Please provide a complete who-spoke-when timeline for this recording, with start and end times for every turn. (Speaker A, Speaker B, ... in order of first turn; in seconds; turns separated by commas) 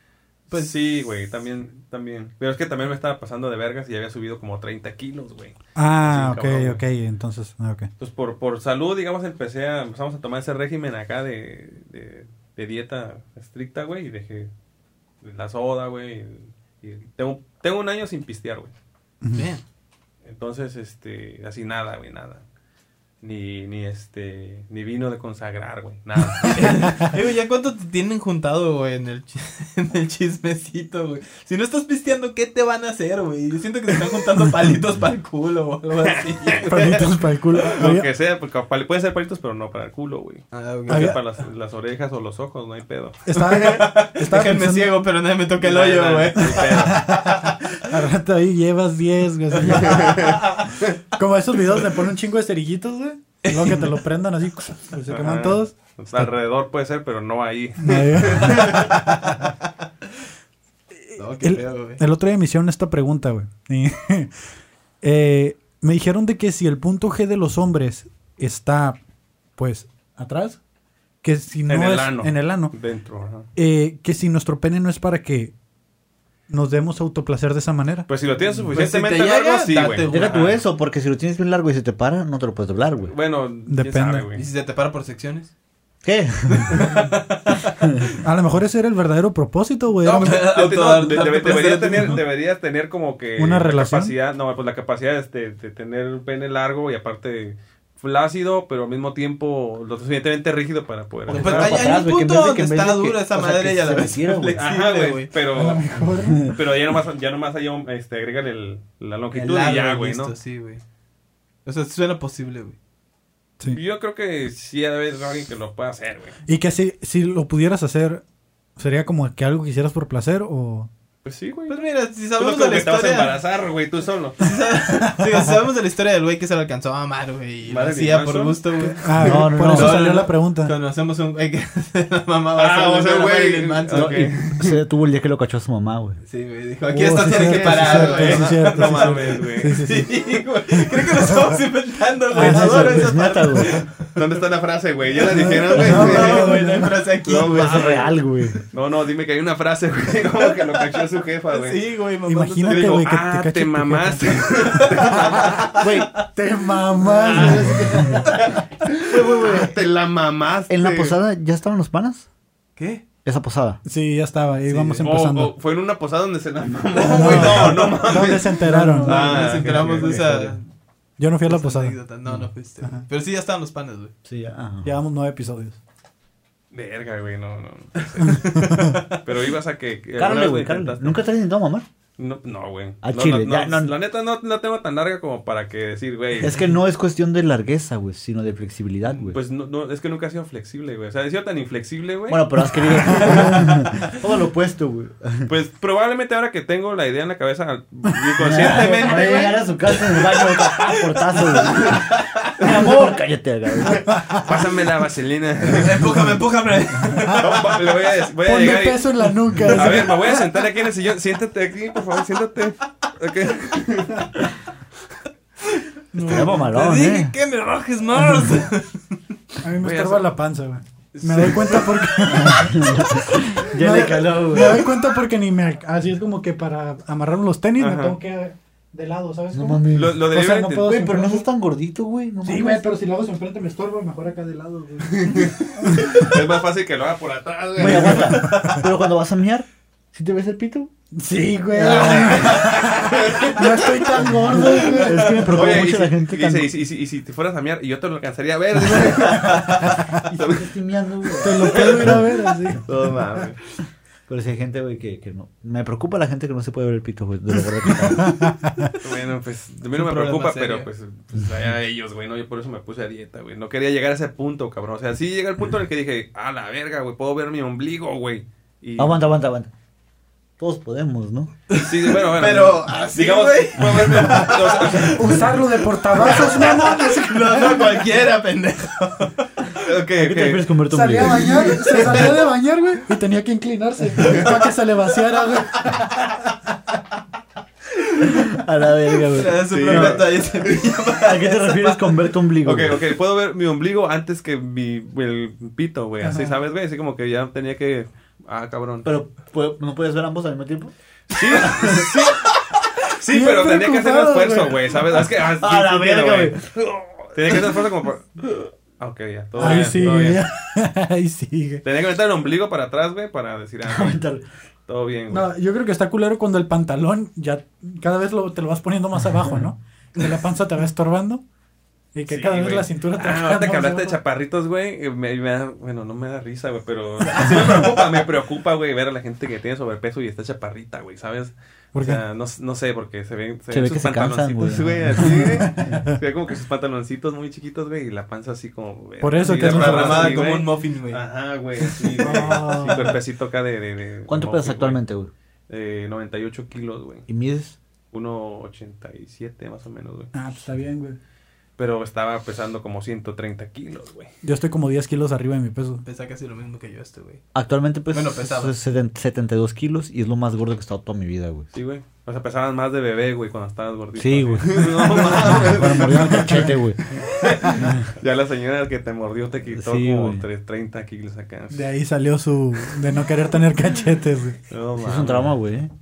Speaker A: 0.5-6.8, Speaker B: 5.8-7.9, Speaker A: 8.0-14.5, Speaker A: 15.2-18.7, Speaker B: 19.2-19.5, Speaker C: 19.3-19.6, Speaker A: 20.2-22.4, Speaker A: 23.2-27.0, Speaker C: 26.5-37.0, Speaker A: 36.0-43.8, Speaker B: 36.7-38.1, Speaker C: 40.5-41.2, Speaker B: 40.9-41.2, Speaker B: 43.2-45.0, Speaker C: 43.4-47.5, Speaker A: 45.6-47.1, Speaker B: 46.5-50.4, Speaker C: 49.7-50.3, Speaker A: 49.8-50.9, Speaker B: 51.1-56.3, Speaker C: 53.5-53.9, Speaker A: 55.1-59.0, Speaker B: 57.8-59.4, Speaker B: 61.1-64.3, Speaker C: 61.2-62.0, Speaker B: 65.0-69.0, Speaker B: 69.6-70.6, Speaker B: 71.2-72.7, Speaker A: 71.7-73.5, Speaker B: 73.5-75.5, Speaker B: 76.5-78.1, Speaker A: 78.1-80.5, Speaker C: 78.7-80.6, Speaker D: 80.1-83.1, Speaker A: 83.1-84.4, Speaker B: 83.7-84.2, Speaker C: 84.3-85.5, Speaker D: 86.0-86.8, Speaker C: 86.7-87.8, Speaker B: 88.2-90.5, Speaker A: 90.0-102.0, Speaker C: 90.2-92.2, Speaker B: 93.4-94.1, Speaker D: 101.3-104.6, Speaker C: 101.3-105.3, Speaker A: 104.6-105.9, Speaker B: 105.5-106.6, Speaker A: 106.4-110.3, Speaker C: 109.3-110.8, Speaker C: 111.6-112.8, Speaker A: 113.7-116.3, Speaker B: 116.5-118.2, Speaker B: 118.8-120.9, Speaker A: 121.2-121.8, Speaker C: 121.7-123.4, Speaker A: 122.3-124.5, Speaker C: 124.4-134.4, Speaker A: 127.6-128.6, Speaker B: 128.8-130.7, Speaker D: 129.2-130.0, Speaker A: 132.5-134.7, Speaker D: 133.9-136.2, Speaker C: 136.3-144.2, Speaker B: 136.9-140.2, Speaker A: 137.1-139.8, Speaker B: 140.7-141.6, Speaker B: 142.3-143.1, Speaker D: 142.3-143.8, Speaker A: 144.1-146.6, Speaker C: 145.2-148.1, Speaker B: 145.3-147.0, Speaker D: 145.9-146.2, Speaker A: 147.2-148.1, Speaker D: 147.3-148.6, Speaker A: 148.7-151.8, Speaker C: 150.4-153.0, Speaker B: 152.3-154.5, Speaker A: 152.7-155.9, Speaker C: 154.7-156.0, Speaker D: 155.8-156.2, Speaker B: 156.3-158.2, Speaker A: 157.2-161.2, Speaker D: 157.3-158.3, Speaker D: 159.1-159.8, Speaker D: 160.7-162.3, Speaker C: 162.8-163.0, Speaker D: 163.2-163.8, Speaker B: 163.8-165.5, Speaker C: 164.8-165.0, Speaker A: 165.0-170.4, Speaker C: 166.9-168.1, Speaker B: 167.0-169.5, Speaker D: 168.6-170.5, Speaker C: 169.0-170.6, Speaker B: 171.2-171.9, Speaker C: 171.5-174.1, Speaker D: 174.2-174.9, Speaker B: 174.8-175.8, Speaker A: 176.7-181.2, Speaker C: 178.1-179.2, Speaker B: 178.6-178.9, Speaker D: 180.2-181.8, Speaker A: 182.2-186.7, Speaker D: 183.0-183.9, Speaker D: 186.4-189.4, Speaker A: 189.1-193.6, Speaker D: 192.3-195.5, Speaker A: 195.5-199.2, Speaker D: 198.4-204.1, Speaker C: 198.5-202.7, Speaker A: 203.8-206.1, Speaker B: 204.1-204.4, Speaker C: 205.7-207.9, Speaker A: 207.4-209.1, Speaker B: 208.4-210.2, Speaker A: 209.7-214.4, Speaker B: 216.1-216.7, Speaker D: 216.1-217.3, Speaker C: 216.3-219.2, Speaker B: 218.3-218.6, Speaker B: 219.6-231.4, Speaker A: 219.8-220.3, Speaker A: 221.1-221.9, Speaker D: 222.3-224.9, Speaker A: 227.8-228.2, Speaker D: 229.5-232.8, Speaker A: 229.9-231.0, Speaker B: 232.4-236.3, Speaker A: 235.1-238.6, Speaker D: 237.8-240.9, Speaker B: 238.1-238.8, Speaker B: 241.2-245.6, Speaker D: 241.8-242.7, Speaker A: 241.8-250.7, Speaker D: 244.3-246.7, Speaker B: 249.8-250.1, Speaker D: 250.3-252.8, Speaker B: 251.4-252.9, Speaker A: 251.7-252.2, Speaker A: 252.8-253.6, Speaker D: 254.3-258.5, Speaker B: 258.2-258.9, Speaker A: 259.0-269.2, Speaker C: 259.9-260.9, Speaker D: 269.0-269.7, Speaker D: 270.6-271.5, Speaker C: 271.7-279.8, Speaker A: 271.8-275.5, Speaker B: 275.0-278.0, Speaker A: 279.7-280.7, Speaker D: 280.2-282.2, Speaker B: 280.9-286.1, Speaker C: 284.2-284.6, Speaker D: 288.2-290.3, Speaker C: 289.3-292.2, Speaker A: 289.7-290.9, Speaker D: 291.2-293.1, Speaker A: 292.6-299.1, Speaker B: 296.2-296.5, Speaker D: 299.0-302.1, Speaker A: 301.3-302.5, Speaker A: 303.1-306.6, Speaker B: 303.3-304.9, Speaker D: 305.4-307.8, Speaker A: 307.3-308.4, Speaker A: 309.0-310.4, Speaker B: 309.6-311.8, Speaker A: 311.8-314.2, Speaker D: 313.8-314.4, Speaker A: 314.9-315.5, Speaker B: 315.3-321.4, Speaker B: 322.1-324.2, Speaker A: 322.3-345.0, Speaker C: 327.3-327.9, Speaker B: 331.9-332.2, Speaker D: 333.7-335.9, Speaker B: 335.2-336.1, Speaker B: 339.2-340.5, Speaker C: 339.6-341.2, Speaker C: 341.9-342.4, Speaker B: 342.2-343.1, Speaker D: 344.3-345.3, Speaker A: 345.7-347.2, Speaker D: 347.3-347.8, Speaker A: 348.1-350.3, Speaker B: 350.3-351.2, Speaker A: 351.8-354.3, Speaker B: 354.4-356.0, Speaker C: 356.0-357.4, Speaker D: 357.5-361.7, Speaker C: 358.1-358.7, Speaker A: 361.7-366.6, Speaker D: 364.1-367.0, Speaker B: 365.6-366.8, Speaker A: 367.3-371.9, Speaker D: 367.7-368.1, Speaker D: 369.7-370.4, Speaker B: 371.7-374.6, Speaker A: 374.7-375.5, Speaker D: 375.0-375.9